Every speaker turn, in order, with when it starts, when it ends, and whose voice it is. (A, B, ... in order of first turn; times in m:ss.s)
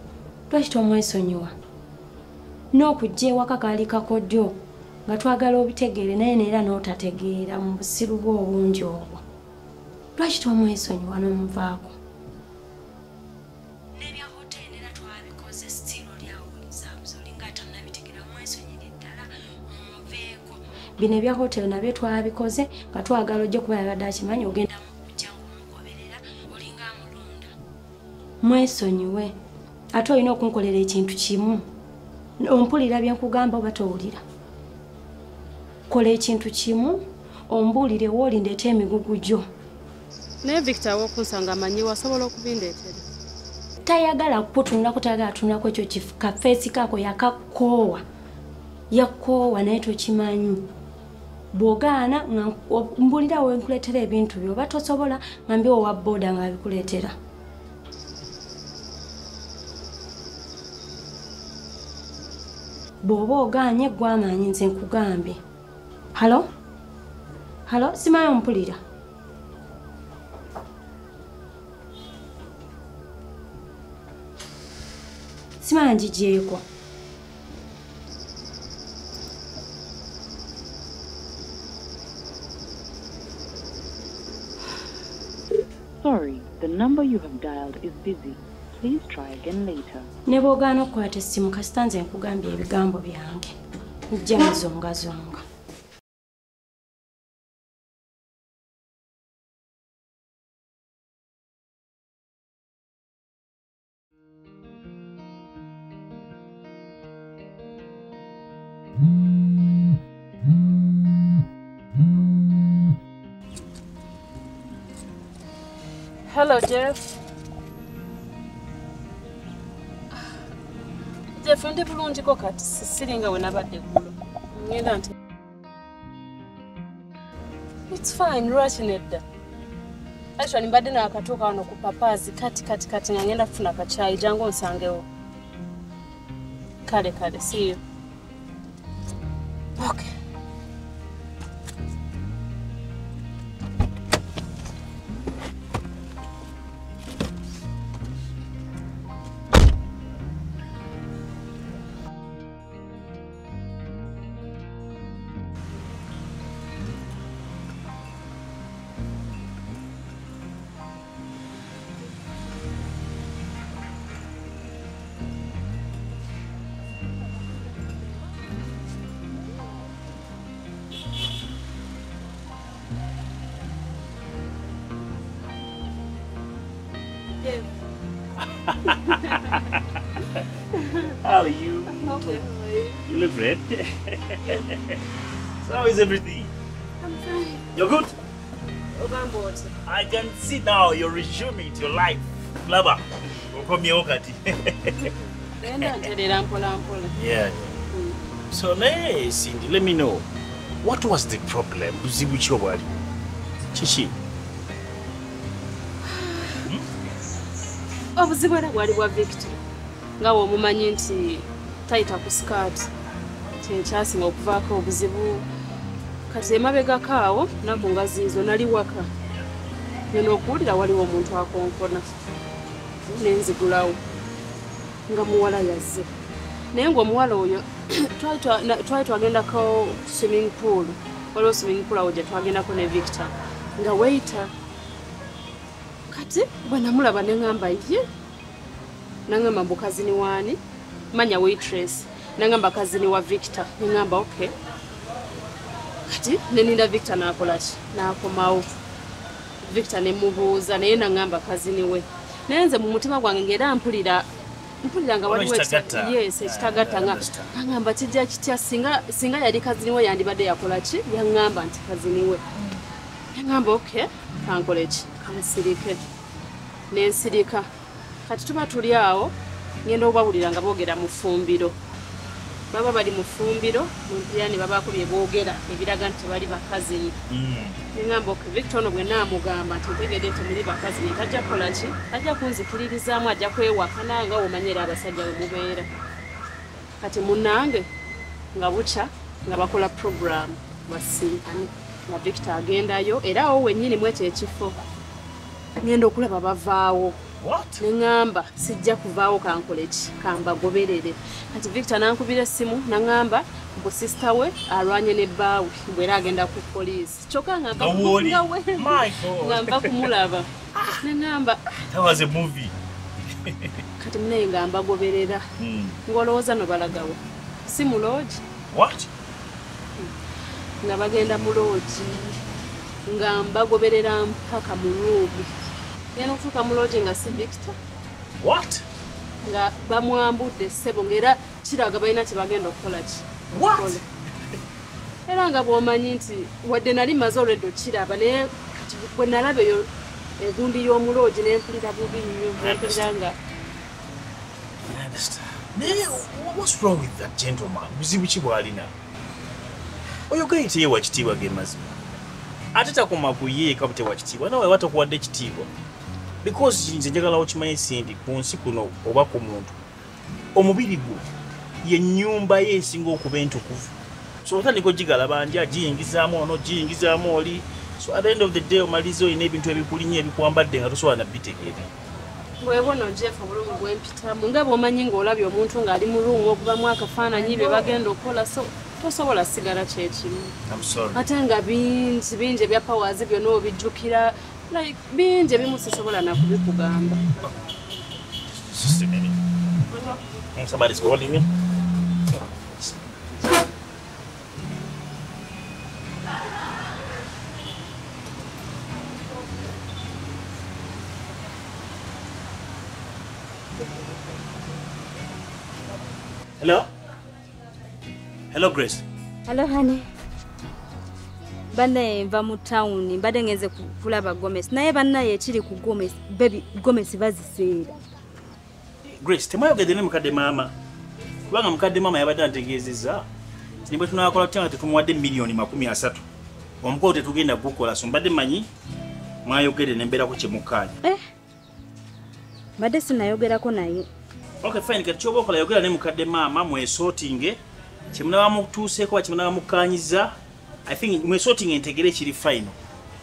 0:00.5-0:01.5 A
0:02.7-0:09.2 A
0:10.2-0:12.0 A
0:14.0-0:19.2 B
0:16.5-0:18.9 A
0:19.7-0:20.5 B
0:19.9-0:20.3 A
0:21.0-0:25.9 A
0:24.9-0:26.2 B
0:26.5-0:27.4 A
0:26.8-0:27.1 B
0:28.4-0:29.3 A
0:29.9-0:31.6 A
0:32.4-0:34.2 A
0:35.9-0:39.4 A
0:40.4-0:43.0 C
0:43.8-0:48.0 A
0:48.9-0:50.6 A
0:51.5-0:57.2 A
1:03.0-1:05.4 A
1:06.1-1:06.5 A
1:07.6-1:08.8 A
1:15.6-1:16.6 A
1:26.0-1:30.1 D
1:30.3-1:33.5 A
1:34.1-1:35.4 A
1:56.3-1:57.1 C
2:01.3-2:05.1 C
2:07.9-2:09.2 C
2:10.4-2:15.0 C
2:16.9-2:17.8 C
2:19.8-2:20.1 C
2:58.4-2:59.8 E
2:58.9-2:59.5 C
3:00.8-3:01.1 C
3:01.2-3:02.4 E
3:01.9-3:03.0 C
3:03.1-3:05.0 E
3:05.6-3:06.5 E
3:07.0-3:07.6 C
3:07.7-3:08.1 E
3:09.0-3:09.7 C
3:09.8-3:15.1 E
3:15.0-3:17.1 C
3:15.6-3:15.9 E
3:17.2-3:17.8 E
3:17.9-3:18.2 C
3:18.5-3:20.3 E
3:20.8-3:23.0 E
3:23.7-3:24.1 E
3:26.1-3:26.6 C
3:28.2-3:29.6 C
3:30.2-3:32.9 C
3:33.6-3:35.4 C
3:36.3-3:39.0 C
3:40.1-3:42.0 C
3:43.1-3:44.0 C
3:45.1-3:46.1 C
3:46.7-3:54.5 C
3:56.1-3:58.0 C
3:59.3-4:00.6 C
4:01.1-4:04.5 C
4:06.1-4:08.6 C
4:09.6-4:14.2 C
4:14.8-4:22.4 C
4:15.2-4:17.5 E
4:23.3-4:26.0 C
4:26.9-4:27.7 C
4:28.2-4:29.3 C
4:29.8-4:31.7 C
4:32.7-4:37.1 C
4:37.3-4:37.8 E
4:37.9-4:45.9 C
4:47.0-4:47.9 C
4:48.5-4:54.8 C
4:55.8-4:57.2 C
4:57.4-4:57.8 E
4:57.8-5:11.7 C
5:07.8-5:10.1 E
5:10.8-5:11.0 E
5:11.9-5:12.7 E
5:13.4-5:13.8 E
5:14.0-5:15.4 C
5:15.6-5:16.0 E
5:16.1-5:18.4 C
5:18.7-5:19.1 E
5:20.8-5:22.4 C
5:23.1-5:25.5 C
5:26.1-5:27.7 C
5:28.4-5:28.8 E
5:29.4-5:34.0 C
5:33.5-5:34.0 E
5:35.3-5:39.9 C
5:40.4-5:43.4 C
5:42.6-5:43.1 E
5:44.9-5:48.9 E
5:50.3-5:52.0 E
5:52.7-5:55.7 E
5:56.4-5:59.8 E
6:00.5-6:01.2 E
6:01.8-6:11.9 E
6:12.6-6:20.5 C
6:17.5-6:17.9 E
6:20.7-6:21.2 E
6:21.1-6:27.2 C
6:28.4-6:29.4 E
6:30.5-6:31.5 E
6:46.6-6:46.9 E
6:48.5-6:49.0 E
6:49.4-6:50.0 B
6:51.7-6:58.0 B
6:59.0-7:00.7 E
7:01.5-7:03.3 E
7:03.8-7:06.2 E
7:06.8-7:08.7 E
7:09.4-7:11.0 E
7:12.8-7:14.1 B
7:14.6-7:17.6 E
7:18.1-7:22.8 E